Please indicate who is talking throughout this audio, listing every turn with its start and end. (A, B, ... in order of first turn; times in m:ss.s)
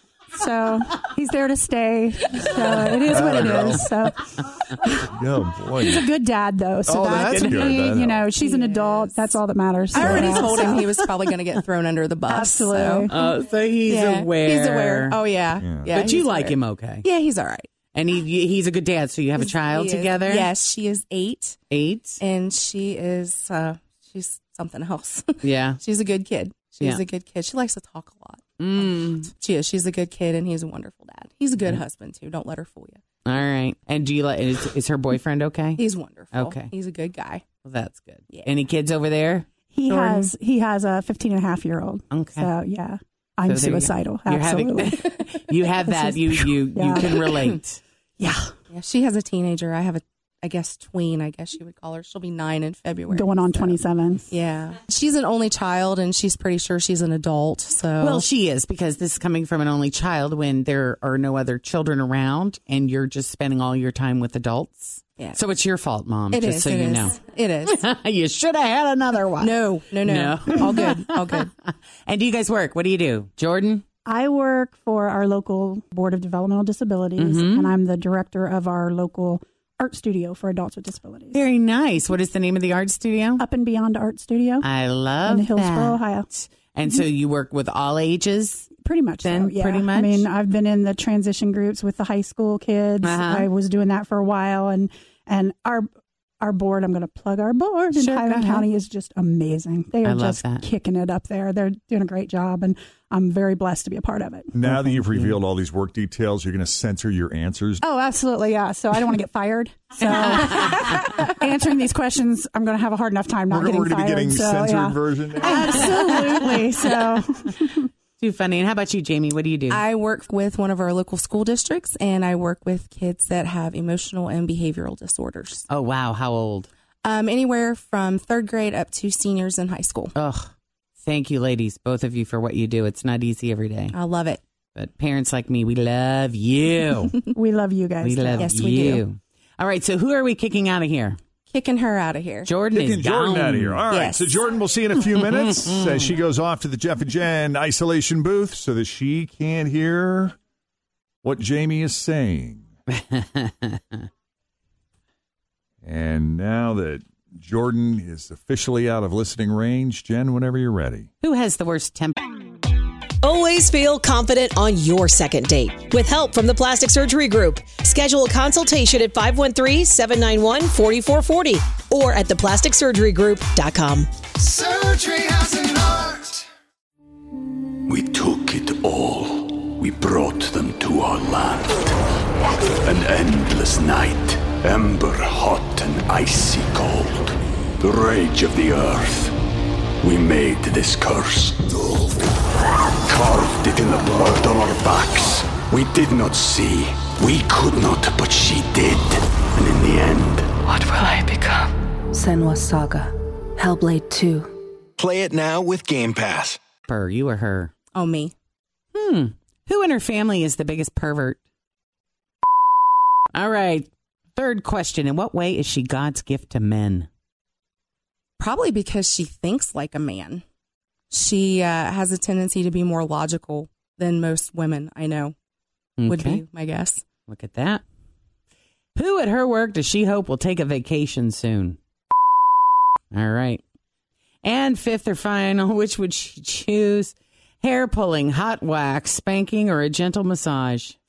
0:00.3-0:05.1 A
0:03.1-0:04.0 B
0:05.1-0:06.1 B
0:05.7-0:11.0 A
0:06.8-0:08.2 B
0:07.3-0:07.8 C
0:08.3-0:09.3 D
0:09.9-0:17.7 D
0:10.0-0:10.4 B
0:12.3-0:13.1 A
0:13.1-0:15.2 C
0:15.6-0:15.9 B
0:15.9-0:17.0 C
0:17.9-0:20.5 C
0:19.4-0:21.6 D
0:21.7-0:22.2 C
0:22.2-0:33.0 D
0:25.4-0:25.8 C
0:28.6-0:29.3 C
0:33.2-0:36.7 C
0:35.8-0:37.4 D
0:37.6-0:39.5 C
0:39.7-0:45.0 A
0:39.9-0:40.3 D
0:42.1-0:42.5 C
0:43.4-0:47.8 C
0:45.9-0:47.2 A
0:47.3-0:47.6 D
0:48.2-0:48.5 A
0:48.7-0:58.2 D
0:53.1-0:54.3 A
0:58.0-1:11.5 C
1:06.3-1:07.8 D
1:09.4-1:11.5 D
1:12.0-1:13.8 C
1:14.1-1:21.4 A
1:17.2-1:17.7 C
1:21.3-1:23.4 C
1:23.4-1:24.7 A
1:24.6-1:30.3 C
1:25.2-1:26.3 A
1:28.8-1:35.9 A
1:33.0-1:33.5 C
1:36.4-1:44.6 A
1:37.9-1:38.7 C
1:40.0-1:40.6 C
1:44.5-1:47.8 B
1:45.1-1:45.4 C
1:47.8-1:57.9 A
1:53.5-1:56.0 B
1:55.7-1:56.5 C
1:58.2-1:59.8 C
1:59.7-2:05.6 D
2:05.7-2:06.7 C
2:07.0-2:10.1 D
2:10.1-2:10.5 C
2:11.0-2:14.0 C
2:13.9-2:14.4 D
2:14.7-2:17.2 C
2:17.3-2:18.5 A
2:18.0-2:21.2 C
2:18.4-2:19.0 D
2:21.5-2:22.5 D
2:22.4-2:23.8 C
2:22.7-2:30.4 B
2:23.9-2:24.4 D
2:25.4-2:25.9 C
2:31.2-2:32.6 B
2:32.9-2:34.0 C
2:35.8-2:41.1 B
2:41.2-2:42.2 C
2:43.2-2:54.1 E
2:54.6-2:56.3 F
2:57.9-3:02.0 G
3:02.8-3:09.3 G
3:10.0-3:11.7 G
3:13.0-3:20.5 G
3:20.6-3:24.5 H
3:25.0-3:26.6 F
3:26.9-3:27.7 C
3:27.9-3:28.3 D
3:28.9-3:31.4 C
3:33.3-3:37.1 C
3:38.4-3:40.4 D
3:41.1-3:45.3 D
3:46.0-3:46.4 C
3:46.1-3:47.0 D
3:47.3-3:47.8 C
3:49.0-3:51.8 C
3:53.1-3:53.6 C
3:54.4-4:01.0 C